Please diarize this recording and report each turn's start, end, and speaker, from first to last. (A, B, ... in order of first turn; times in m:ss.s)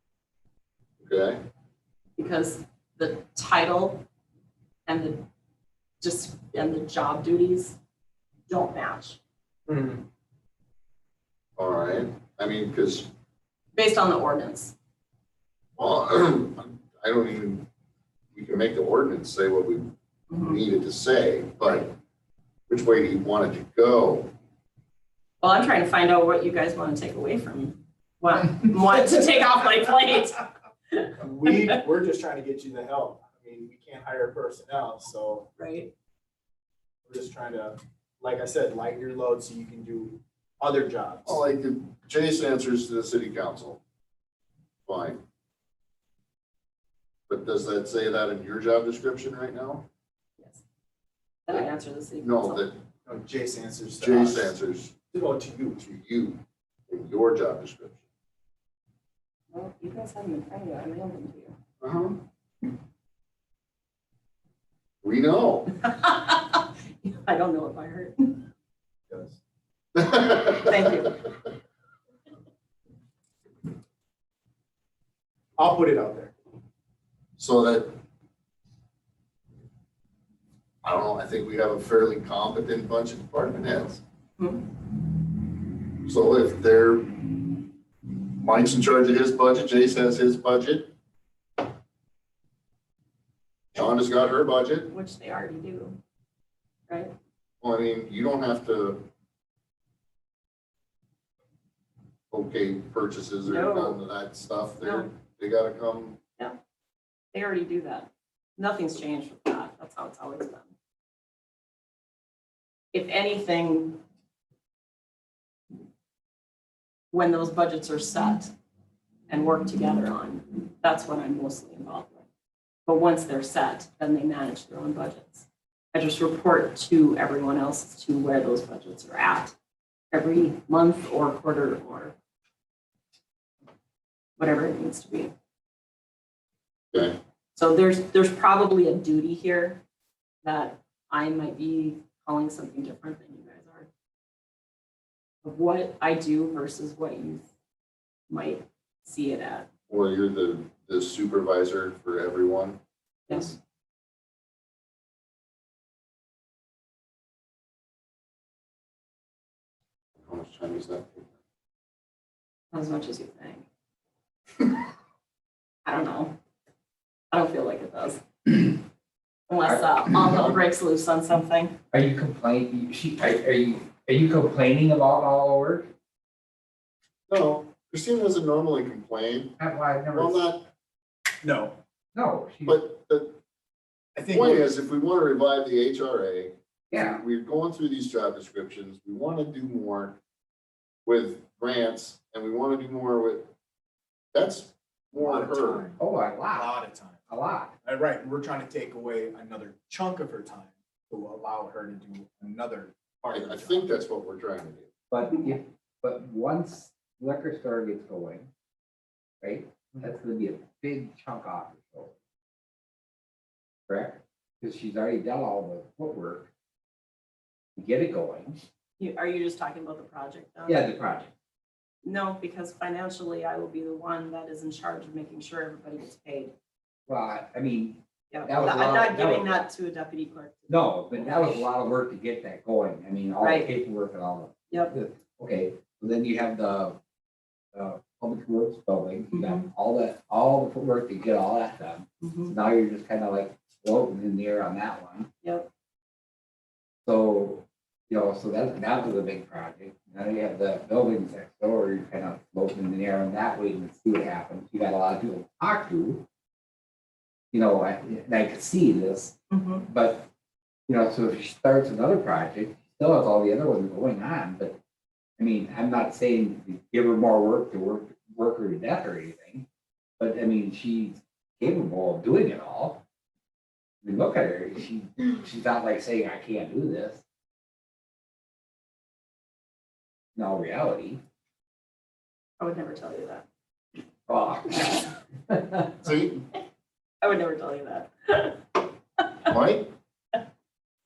0:01.0-0:01.4 A
0:02.2-0:04.0 B
0:04.9-0:05.2 B
0:06.0-0:07.8 B
0:08.5-0:09.2 B
0:09.7-0:10.0 C
0:11.6-0:13.1 A
0:13.7-0:14.7 B
0:15.8-0:17.7 A
0:18.3-0:19.9 A
0:20.3-0:20.6 B
0:20.4-0:21.9 A
0:22.7-0:24.3 A
0:25.4-0:31.8 B
0:31.2-0:35.5 C
0:35.6-0:35.9 B
0:37.0-0:41.4 C
0:41.2-0:43.8 A
0:44.9-0:45.2 A
0:47.3-0:49.8 A
0:50.4-0:50.6 B
0:51.5-0:52.7 B
0:52.2-0:52.8 A
0:53.0-0:54.5 C
0:54.0-0:55.0 A
0:55.1-0:55.8 C
0:55.8-0:58.0 A
0:59.5-1:01.5 B
1:01.8-1:02.2 A
1:05.0-1:05.7 A
1:05.8-1:08.4 B
1:09.1-1:09.4 C
1:10.0-1:11.0 A
1:10.6-1:11.2 B
1:15.6-1:16.3 C
1:17.4-1:17.9 A
1:20.8-1:24.0 A
1:24.4-1:24.7 B
1:26.0-1:27.6 A
1:28.1-1:30.9 A
1:33.7-1:34.9 A
1:34.9-1:36.0 B
1:37.6-1:39.0 A
1:42.3-1:46.2 A
1:43.4-1:44.0 B
1:44.8-1:45.1 B
1:47.3-1:50.7 B
1:52.9-1:54.0 B
1:57.1-1:58.5 B
1:59.3-2:02.2 B
2:02.8-2:09.5 B
2:10.1-2:12.1 B
2:14.4-2:15.3 B
2:17.5-2:19.8 B
2:20.4-2:23.9 B
2:25.4-2:27.5 B
2:28.3-2:29.7 B
2:29.9-2:32.8 A
2:33.3-2:33.6 B
2:40.2-2:41.3 A
2:42.7-2:43.6 B
2:45.8-2:46.3 B
2:47.3-2:48.6 B
2:49.5-2:51.7 B
2:49.6-2:50.2 D
2:50.3-2:50.6 A
2:51.9-2:55.9 D
2:57.3-2:59.6 A
2:59.6-3:00.5 D
3:00.1-3:00.6 A
3:01.4-3:01.8 C
3:02.1-3:02.8 D
3:02.7-3:03.3 A
3:04.2-3:04.7 C
3:04.3-3:10.2 A
3:06.9-3:07.2 D
3:11.0-3:13.5 A
3:14.3-3:15.9 A
3:15.1-3:16.0 C
3:16.0-3:16.7 D
3:16.5-3:17.3 C
3:17.3-3:17.7 D
3:17.8-3:23.9 C
3:23.3-3:24.9 A
3:25.1-3:28.5 D
3:29.4-3:32.2 D
3:33.9-3:36.5 D
3:37.8-3:38.6 D
3:39.0-3:40.8 B
3:40.7-3:41.3 D
3:42.0-3:46.5 B
3:47.1-3:49.6 D
3:48.3-3:51.7 B
3:50.7-3:57.0 D
3:53.4-3:53.7 B
3:54.7-3:54.9 B
3:57.7-4:05.3 D
3:59.3-3:59.7 B
4:02.2-4:02.5 B
4:05.4-4:05.7 B
4:07.0-4:16.2 D
4:17.5-4:20.3 D
4:19.5-4:19.9 B
4:20.9-4:24.8 D
4:25.4-4:29.6 D
4:30.2-4:33.0 D
4:34.0-4:37.2 D
4:40.4-4:41.2 D
4:42.6-4:43.4 B
4:44.3-4:45.9 D
4:46.0-4:46.4 A
4:47.2-4:48.6 B
4:49.5-4:49.9 A